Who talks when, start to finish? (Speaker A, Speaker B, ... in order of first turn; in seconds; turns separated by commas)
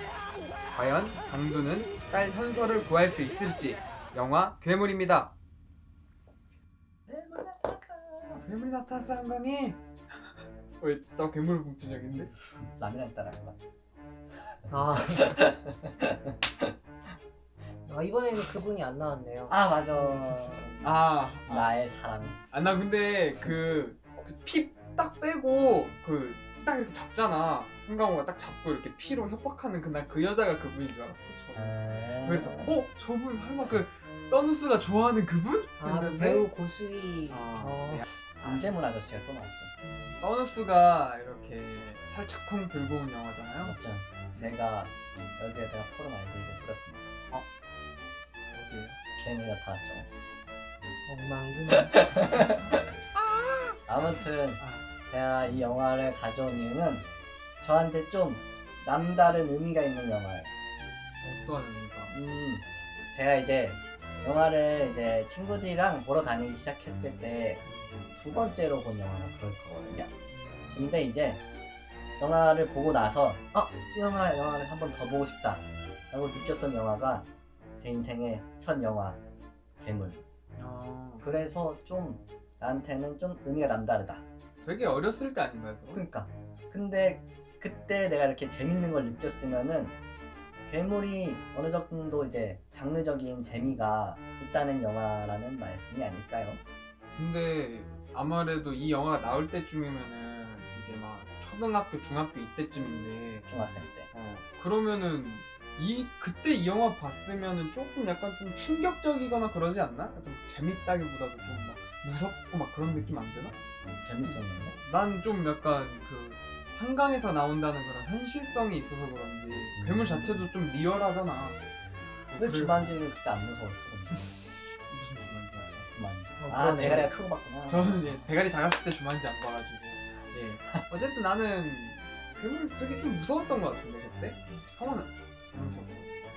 Speaker A: 0.7-5.3, Speaker B: 7.1-8.5, Speaker A: 8.4-12.3, Speaker B: 12.5-13.6, Speaker B: 14.6-16.7, Speaker C: 14.7-15.4, Speaker C: 17.9-20.3, Speaker B: 19.5-22.4, Speaker A: 20.8-21.8, Speaker A: 22.5-36.5, Speaker B: 31.5-32.8, Speaker C: 35.8-38.6, Speaker A: 37.3-38.6, Speaker B: 38.4-39.7, Speaker C: 39.8-40.2, Speaker A: 40.2-43.8, Speaker B: 43.6-47.0, Speaker A: 44.3-44.6, Speaker A: 48.5-49.0, Speaker B: 49.2-50.1, Speaker C: 51.1-52.6, Speaker B: 52.3-52.6, Speaker B: 53.9-57.1, Speaker A: 54.6-54.9, Speaker B: 57.6-60.5, Speaker A: 61.2-62.1, Speaker B: 62.1-67.6, Speaker A: 67.6-68.0, Speaker B: 68.2-70.1, Speaker A: 70.3-70.9, Speaker B: 70.8-71.4, Speaker B: 72.2-77.3, Speaker B: 77.8-79.2, Speaker B: 79.8-80.2, Speaker A: 80.6-81.3, Speaker B: 81.2-84.2, Speaker A: 84.6-86.0, Speaker B: 85.9-90.0, Speaker B: 90.7-96.6, Speaker A: 97.2-103.5, Speaker B: 103.5-104.1, Speaker A: 104.1-113.6, Speaker B: 113.8-114.8, Speaker A: 114.2-121.6, Speaker B: 119.8-120.5, Speaker A: 122.3-123.0, Speaker B: 122.3-124.3, Speaker A: 124.8-126.0, Speaker B: 126.0-128.0, Speaker C: 126.4-127.1, Speaker A: 126.7-127.1, Speaker A: 127.6-136.1